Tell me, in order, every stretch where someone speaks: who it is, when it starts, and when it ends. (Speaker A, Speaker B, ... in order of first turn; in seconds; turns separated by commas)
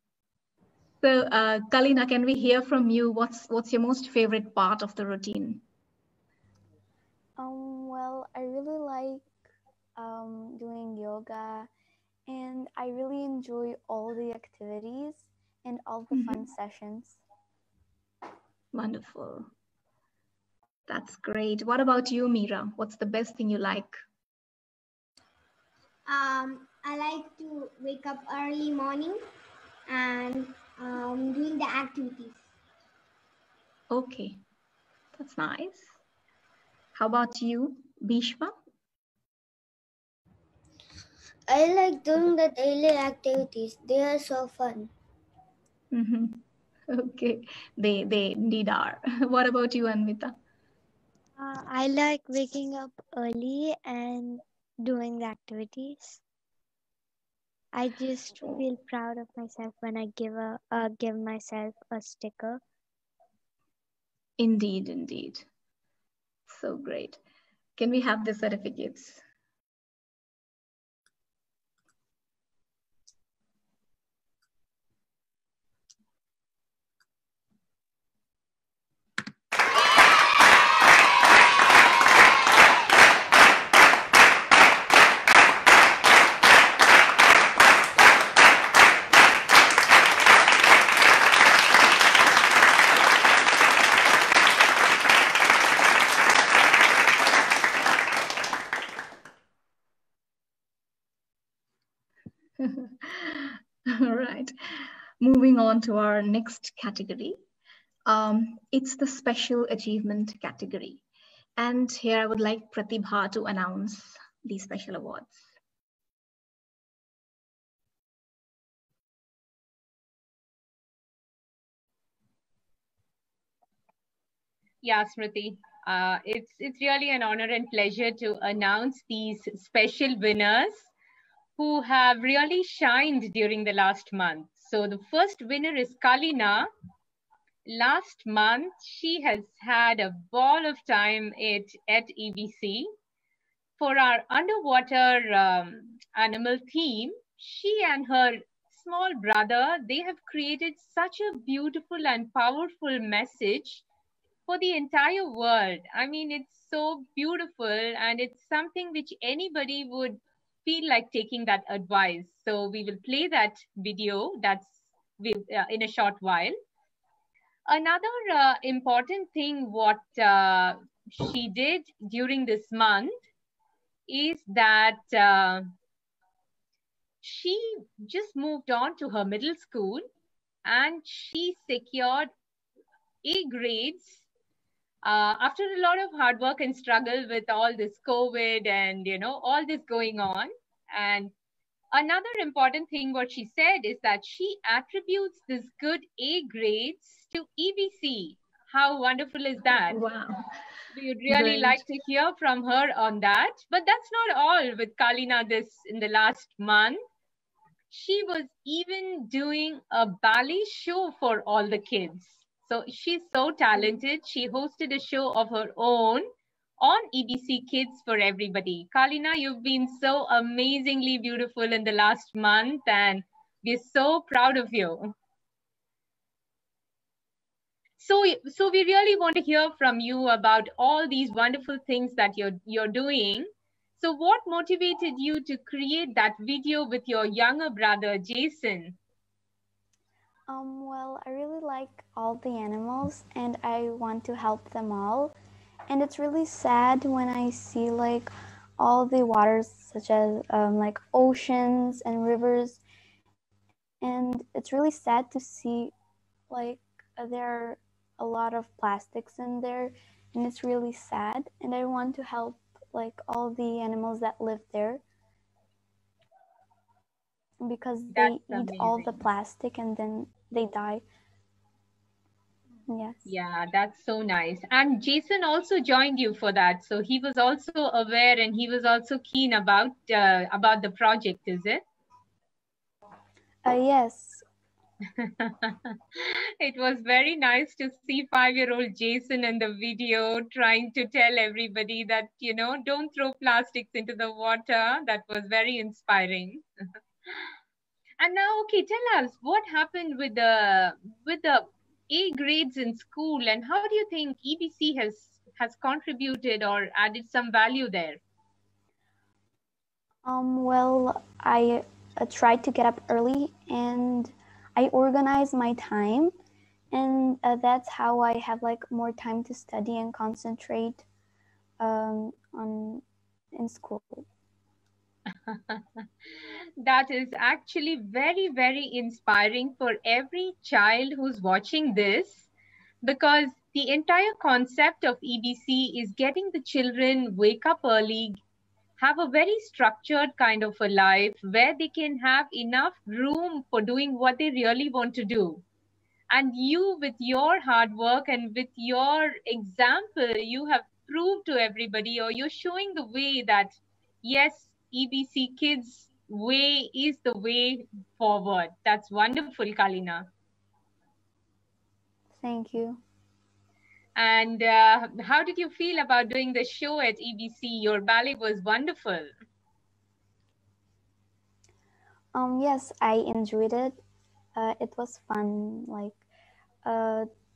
Speaker A: 1.0-5.6, Speaker B: 7.4-9.3, Speaker B: 10.0-11.7, Speaker B: 12.3-17.2, Speaker A: 16.1-16.5, Speaker A: 18.7-19.5, Speaker A: 20.9-24.0, Speaker C: 26.1-29.2, Speaker C: 29.9-32.4, Speaker A: 33.9-34.4, Speaker A: 35.1-36.0, Speaker A: 37.0-38.5, Speaker D: 41.5-44.9, Speaker A: 45.9-50.4, Speaker E: 51.4-56.2, Speaker E: 57.7-62.6, Speaker A: 64.4-65.5, Speaker A: 66.5-67.2, Speaker A: 67.8-69.2, Speaker A: 102.6-107.4, Speaker A: 108.1-111.0, Speaker A: 111.6-115.5, Speaker F: 124.8-130.9, Speaker F: 131.6-136.7, Speaker F: 137.7-142.9, Speaker F: 143.8-153.8, Speaker F: 154.5-166.6, Speaker F: 167.7-173.2, Speaker F: 174.1-175.6, Speaker F: 177.2-180.1, Speaker F: 180.7-182.3, Speaker F: 183.2-184.2, Speaker F: 185.0-191.3, Speaker F: 191.9-200.0, Speaker A: 199.9-200.4, Speaker F: 200.9-207.0, Speaker A: 201.3-201.8, Speaker F: 207.9-216.3, Speaker F: 216.8-225.1, Speaker F: 228.0-239.0, Speaker B: 240.5-245.3, Speaker B: 245.9-252.8, Speaker B: 254.0-255.9, Speaker B: 256.5-265.0, Speaker B: 267.6-271.1, Speaker F: 268.1-269.2, Speaker B: 272.9-273.2, Speaker F: 273.3-281.8, Speaker B: 283.6-284.4, Speaker F: 285.2-296.6, Speaker F: 298.2-308.2, Speaker B: 310.2-316.3, Speaker B: 316.9-321.0, Speaker B: 321.8-323.0, Speaker B: 323.6-324.3, Speaker F: 325.5-332.5, Speaker F: 333.0-338.4, Speaker F: 339.0-345.6, Speaker F: 346.3-360.3, Speaker B: 362.4-363.0, Speaker F: 364.2-369.3, Speaker B: 372.3-374.0, Speaker B: 374.6-376.2, Speaker B: 376.8-377.3